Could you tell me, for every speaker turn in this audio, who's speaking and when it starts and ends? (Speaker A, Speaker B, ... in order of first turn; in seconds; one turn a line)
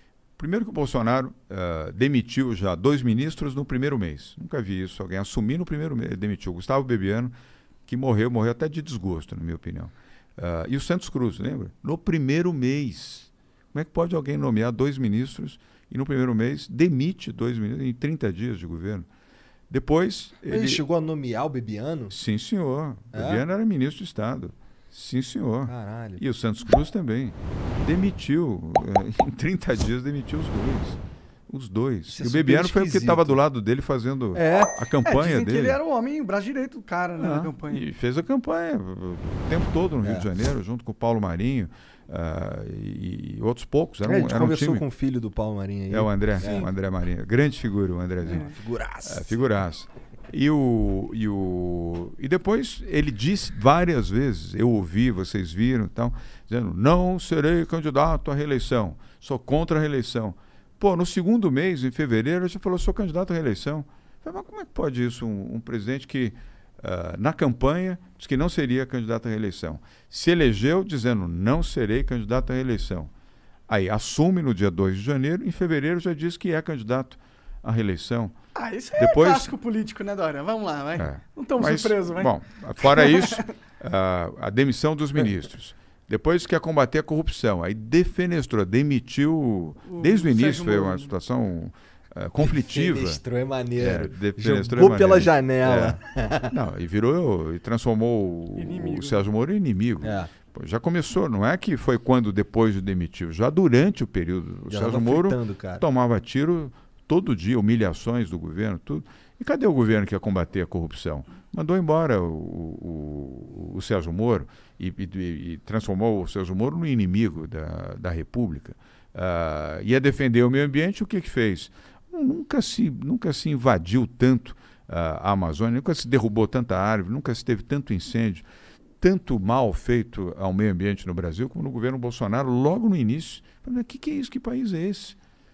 Speaker A: 0.4-7.3
Speaker A: 7.9-19.1
Speaker A: 19.7-20.8
Speaker B: 20.5-22.2
Speaker A: 22.1-35.8
Speaker B: 23.1-23.4
Speaker B: 25.7-26.2
Speaker B: 32.1-33.4
Speaker B: 34.3-34.7
Speaker C: 35.0-37.9
Speaker A: 37.2-44.8
Speaker B: 44.0-46.7
Speaker A: 45.9-73.1
Speaker C: 46.4-46.7
Speaker B: 48.2-49.5
Speaker C: 48.3-48.5
Speaker A: 73.7-78.3
Speaker C: 78.6-83.5
Speaker A: 79.0-79.5
Speaker A: 81.0-93.2
Speaker C: 89.9-91.1
Speaker B: 92.4-96.5
Speaker A: 93.8-128.5
Speaker C: 98.6-99.2
Speaker B: 100.0-100.3
Speaker B: 104.7-105.8
Speaker A: 129.0-135.2